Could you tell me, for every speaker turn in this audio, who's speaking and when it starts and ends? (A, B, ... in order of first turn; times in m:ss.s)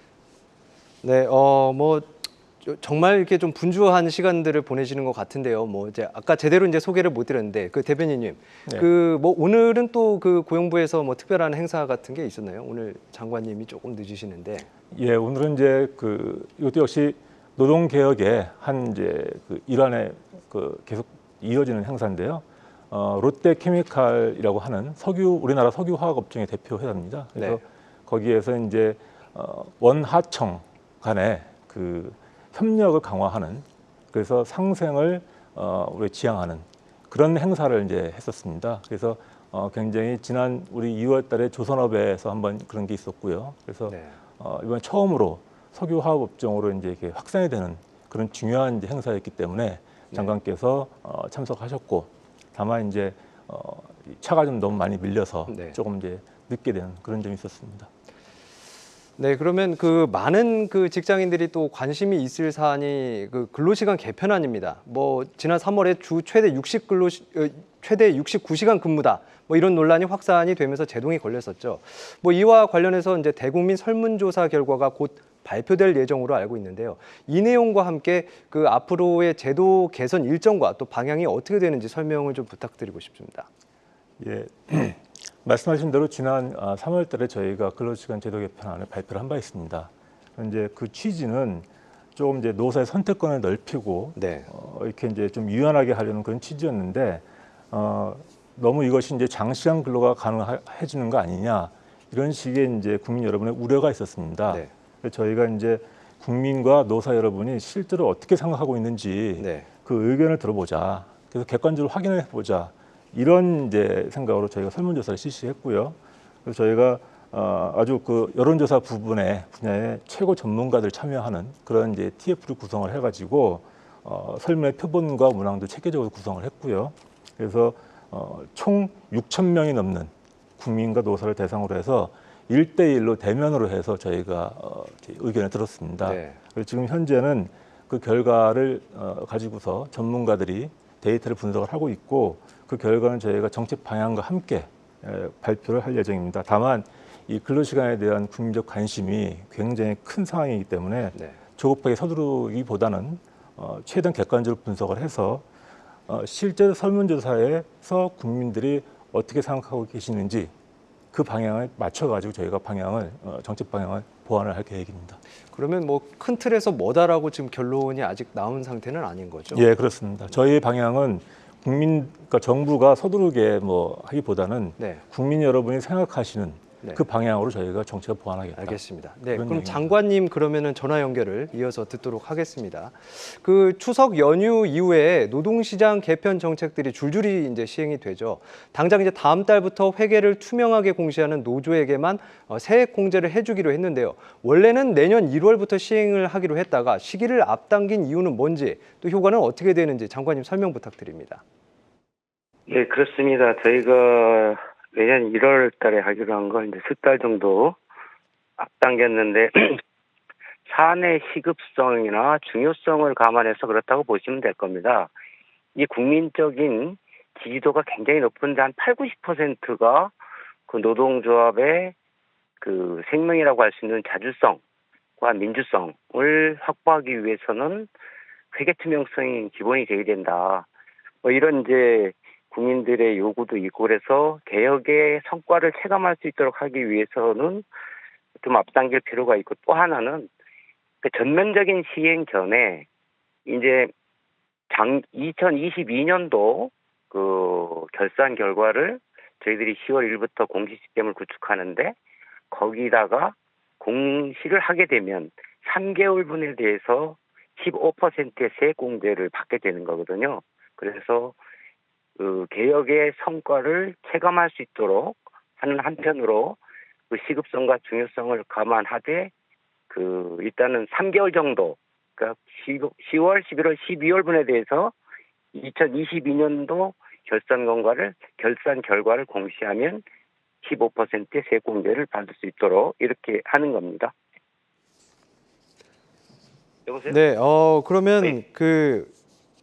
0:01.0-0:14.7 A
0:14.9-0:57.9 B
0:43.9-0:44.2 A
0:55.5-0:55.8 A
0:59.2-1:23.5 A
1:24.2-2:35.4 B
1:34.2-1:34.5 A
1:49.4-1:49.7 A
2:16.0-2:16.4 A
2:36.1-2:40.5 B
2:41.1-2:45.2 B
2:45.5-2:49.7 A
2:49.5-2:59.9 B
2:58.6-3:21.4 A
3:22.7-3:27.8 C
3:28.6-3:29.8 C
3:30.7-3:35.1 C
3:35.8-3:40.1 C
3:40.7-3:41.9 C
3:42.6-3:44.6 C
3:45.2-3:47.9 C
3:48.5-3:50.7 C
3:51.2-3:57.6 C
3:58.4-4:00.3 C
4:01.0-4:02.8 C
4:03.5-4:03.9 C
4:04.7-4:12.0 C
4:12.5-4:21.4 C
4:22.2-4:26.6 C
4:27.1-4:29.3 C
4:29.9-4:34.9 C
4:35.5-4:40.0 C
4:40.6-4:44.1 C
4:46.9-4:47.2 C
4:47.1-4:49.1 A